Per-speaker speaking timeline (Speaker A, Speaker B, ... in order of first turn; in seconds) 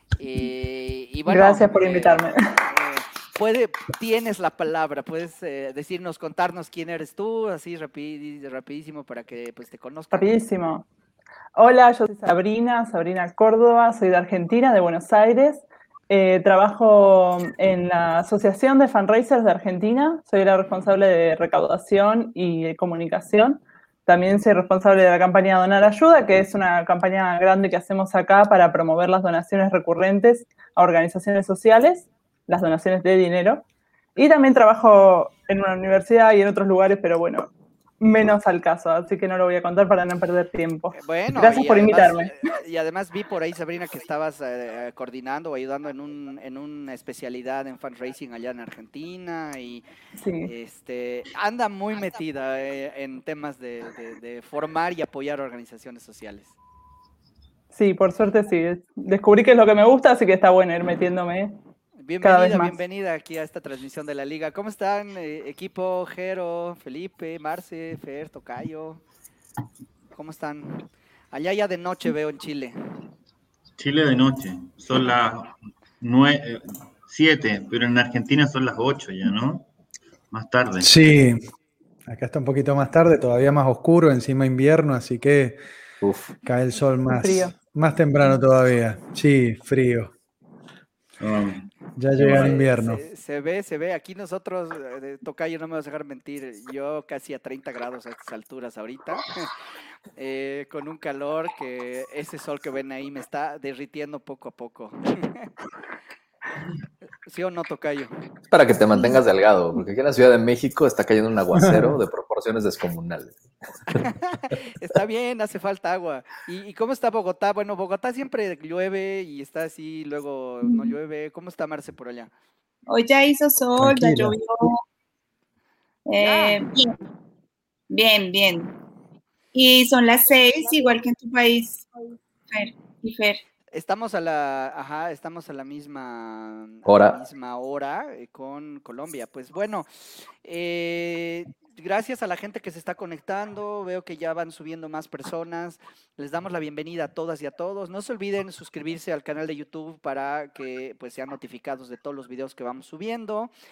Speaker A: 0.2-10.3, 40.9-49.8, 50.4-56.5, 62.0-69.0, 70.1-72.8, 92.2-99.5, 100.2-105.5, 107.2-108.2, 114.0-122.3, 126.2-126.7, 133.7-139.9, 140.4-153.5
Speaker B: 1.2-2.5, 10.1-10.8, 11.6-33.6, 34.1-37.5, 38.0-42.3, 50.2-50.5, 57.7-61.6, 62.2-62.8, 87.1-87.5
Speaker C: 73.8-79.7, 80.3-80.9, 91.2-92.5
Speaker D: 80.8-81.4, 82.0-85.6, 86.4-90.1, 92.0-93.0, 123.8-124.4
Speaker E: 86.0-86.3, 108.5-113.4, 136.8-137.2
Speaker F: 122.9-124.8, 126.0-127.0, 127.9-128.7, 129.5-131.9, 132.5-133.4